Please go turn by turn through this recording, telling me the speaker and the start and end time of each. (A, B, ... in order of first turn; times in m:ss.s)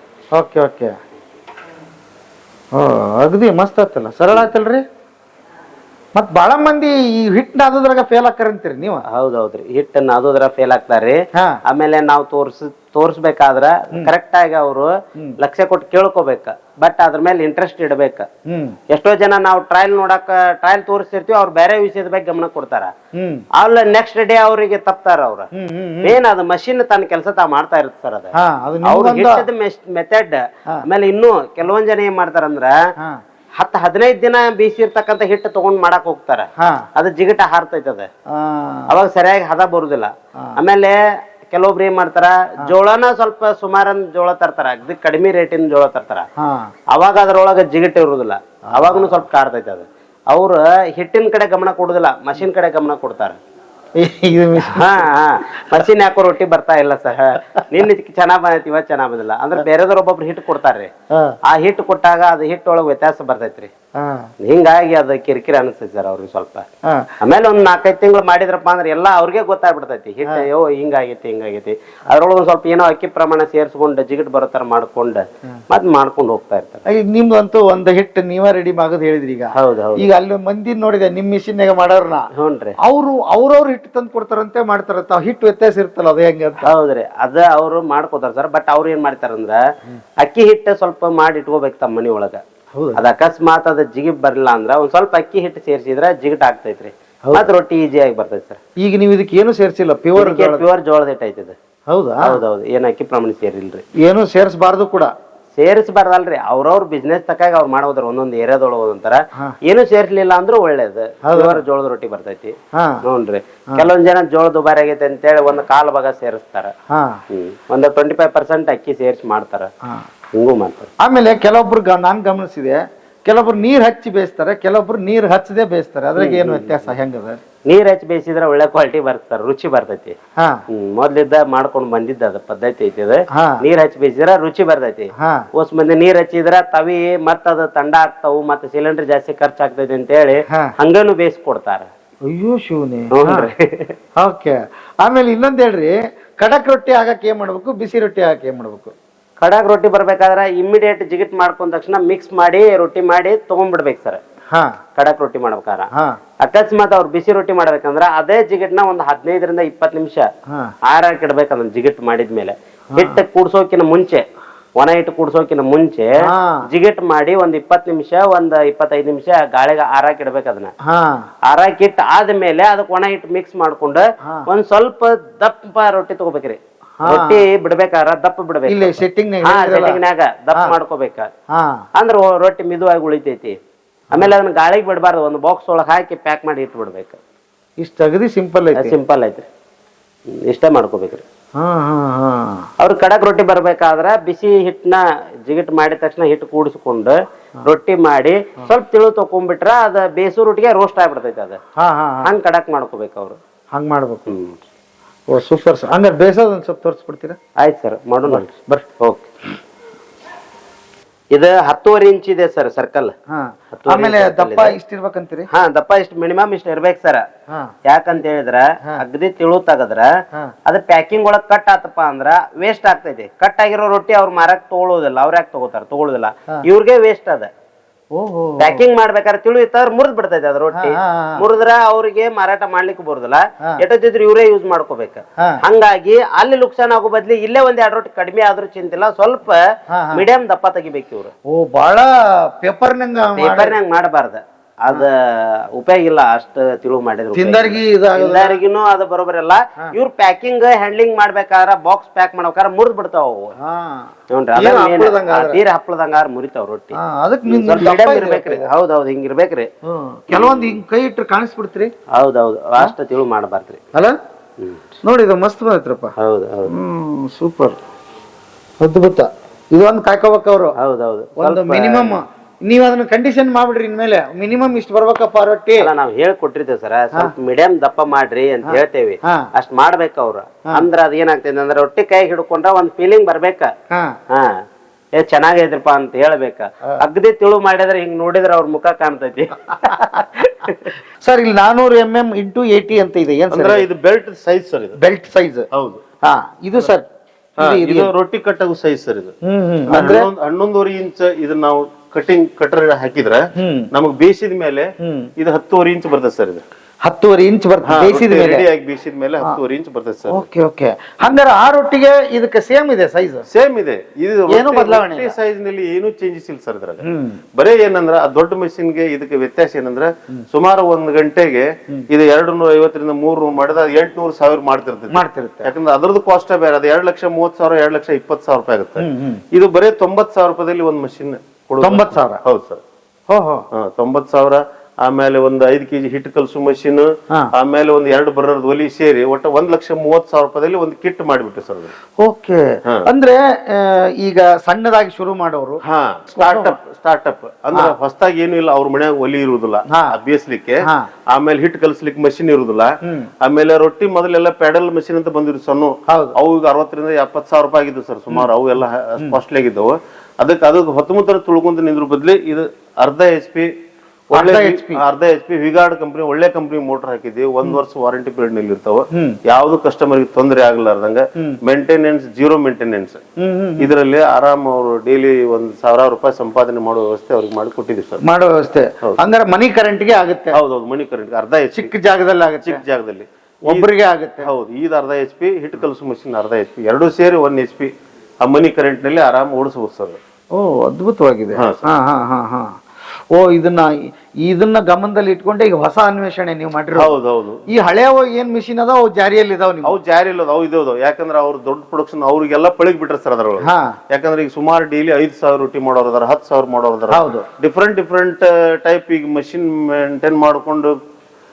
0:00.3-0:00.9 A
0:02.7-0:04.8 A
0:06.1-0:09.0 A
0:09.1-0:18.3 B
0:18.5-0:18.8 A
0:18.9-0:22.9 B
0:23.1-0:23.4 A
0:23.5-0:25.5 B
0:25.5-0:26.2 A
0:26.0-0:32.8 B
0:28.3-0:29.4 A
0:33.6-0:38.1 B
0:36.6-0:36.9 A
0:38.3-0:38.9 A
0:38.9-0:46.2 B
0:46.4-0:46.7 A
0:46.9-0:53.4 B
0:48.7-0:49.2 A
0:54.0-0:55.0 A
0:54.7-1:00.9 B
0:57.5-0:57.8 A
1:01.1-1:01.4 A
1:01.4-1:03.7 B
1:03.9-1:04.3 A
1:04.4-1:06.7 B
1:06.8-1:07.1 A
1:07.2-1:16.8 B
1:16.9-1:22.3 A
1:19.5-1:20.1 B
1:22.3-1:22.8 B
1:22.8-1:26.7 A
1:26.6-1:29.6 B
1:30.2-1:32.4 B
1:32.7-1:33.0 A
1:32.9-1:38.6 B
1:38.8-1:40.6 A
1:40.2-1:41.5 B
1:41.9-1:42.4 A
1:42.2-1:43.8 B
1:44.0-1:45.1 A
1:45.6-1:56.7 B
1:51.2-1:51.6 A
1:52.7-1:53.0 A
1:56.9-1:57.2 A
1:57.3-1:59.7 B
2:00.3-2:00.9 B
2:01.0-2:07.4 A
2:06.2-2:06.9 B
2:07.6-2:10.1 B
2:10.4-2:10.6 A
2:10.7-2:21.9 B
2:13.3-2:13.6 A
2:15.2-2:15.4 A
2:22.2-2:23.5 A
2:23.1-2:23.9 B
2:24.2-2:28.9 A
2:29.4-2:34.2 B
2:34.5-2:34.8 A
2:35.0-2:35.9 B
2:36.4-2:40.3 B
2:40.8-2:44.2 B
2:42.9-2:43.2 A
2:44.8-2:50.7 B
2:46.2-2:46.7 A
2:50.8-2:51.2 A
2:51.4-3:01.3 B
2:54.2-2:54.5 A
2:57.0-2:57.4 A
2:58.7-3:00.0 A
3:01.5-3:01.8 A
3:02.0-3:03.6 B
3:04.1-3:07.2 B
3:07.8-3:09.0 A
3:08.7-3:09.4 B
3:10.3-3:11.2 B
3:11.6-3:12.7 A
3:12.8-3:21.6 B
3:21.8-3:22.3 A
3:22.2-3:23.4 B
3:23.7-3:24.3 A
3:24.3-3:24.5 B
3:25.3-3:27.4 A
3:27.6-3:29.3 B
3:28.2-3:28.9 A
3:31.3-3:33.1 B
3:33.3-3:35.5 A
3:33.8-3:34.8 B
3:35.5-3:37.2 B
3:37.5-3:37.7 A
3:37.8-3:40.1 B
3:40.6-3:47.5 B
3:48.1-3:48.8 A
3:48.6-3:59.6 B
3:50.7-3:51.4 A
3:59.9-4:00.2 A
4:00.1-4:01.3 B
4:01.5-4:03.8 A
4:03.4-4:13.5 B
4:07.3-4:08.6 A
4:13.6-4:15.6 A
4:14.3-4:19.7 B
4:16.9-4:18.7 A
4:19.8-4:21.9 A
4:20.3-4:20.8 B
4:22.1-4:23.8 B
4:25.0-4:26.1 A
4:26.2-4:26.7 B
4:26.7-4:27.8 A
4:28.8-4:30.8 A
4:30.8-4:32.2 B
4:31.4-4:35.9 A
4:35.8-4:43.7 B
4:38.6-4:39.5 A
4:43.9-4:44.2 A
4:44.3-4:44.6 B
4:45.1-4:50.9 B
4:49.9-4:50.2 A
4:51.2-4:53.8 A
4:53.5-4:55.0 C
4:55.0-4:55.7 A
4:55.7-4:56.0 C
4:56.2-4:57.1 A
4:57.6-4:58.1 A
4:57.6-4:59.3 C
4:59.4-5:00.3 A
4:59.9-5:06.6 C
5:03.6-5:03.9 A
5:05.0-5:05.3 A
5:07.0-5:08.7 A
5:07.8-5:10.4 C
5:10.3-5:13.4 A
5:13.5-5:32.8 C
5:14.5-5:15.3 A
5:17.0-5:17.4 A
5:25.1-5:25.7 A
5:29.0-5:29.4 A
5:31.8-5:32.4 A
5:33.3-5:33.6 A
5:33.7-5:41.9 C
5:42.2-5:45.8 A
5:45.8-5:52.9 C
5:46.3-5:46.8 A
5:49.9-5:50.2 A
5:50.8-5:51.1 A
5:53.0-5:53.3 A
5:53.4-6:03.7 C
5:56.1-5:56.3 A
6:04.3-6:13.2 C
6:04.3-6:05.0 A
6:09.1-6:09.4 A
6:13.4-6:13.9 A
6:13.8-6:18.2 C
6:18.2-6:20.6 A
6:20.5-6:21.9 C
6:21.7-6:22.8 A
6:22.6-6:23.9 C
6:23.6-6:24.5 A
6:24.4-6:30.2 C
6:30.5-6:32.8 A
6:31.5-6:31.9 C
6:33.3-6:37.1 A
6:37.0-6:37.6 C
6:37.7-6:40.0 A
6:39.8-6:51.0 C
6:43.6-6:44.0 A
6:47.1-6:47.4 A